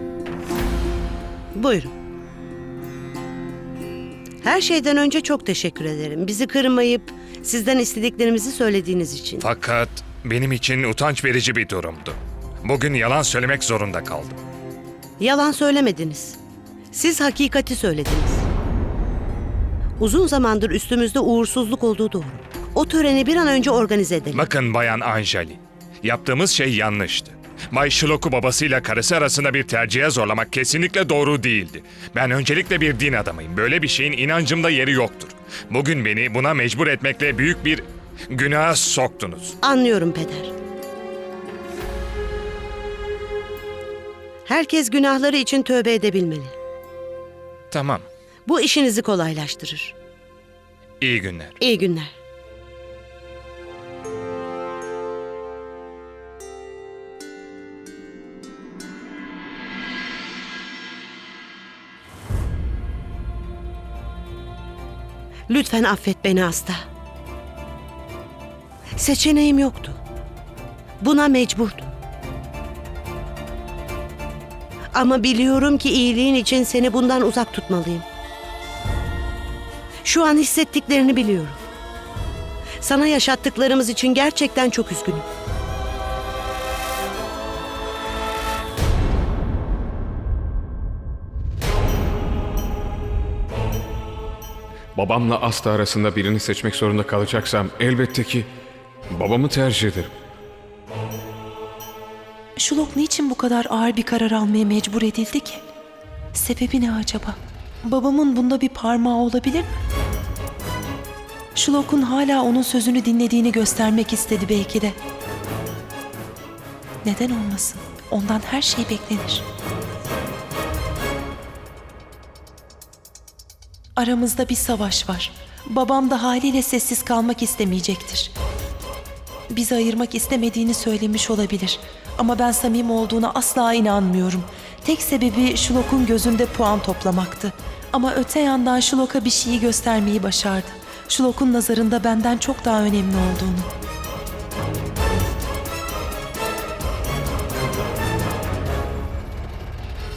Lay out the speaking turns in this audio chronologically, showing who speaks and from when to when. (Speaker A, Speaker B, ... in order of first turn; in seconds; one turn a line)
Speaker A: 1.6-1.9
Speaker A: 4.4-9.4
Speaker B: 9.4-14.4
Speaker A: 15.2-16.4
Speaker A: 16.9-18.5
Speaker A: 20.0-24.4
Speaker B: 24.3-39.6
Speaker A: 39.6-40.5
Speaker A: 44.5-46.5
Speaker B: 47.7-48.1
Speaker A: 48.5-49.9
Speaker B: 51.0-51.6
Speaker A: 51.6-52.1
Speaker A: 65.5-66.8
Speaker A: 69.0-70.0
Speaker A: 71.0-71.9
Speaker A: 74.9-78.1
Speaker A: 80.0-81.6
Speaker A: 82.8-85.2
Speaker C: 95.0-98.5
Speaker C: 99.1-100.1
Speaker D: 102.6-105.7
Speaker D: 106.3-109.7
Speaker D: 111.5-115.0
Speaker D: 117.0-119.5
Speaker D: 124.0-128.3
Speaker D: 129.5-143.7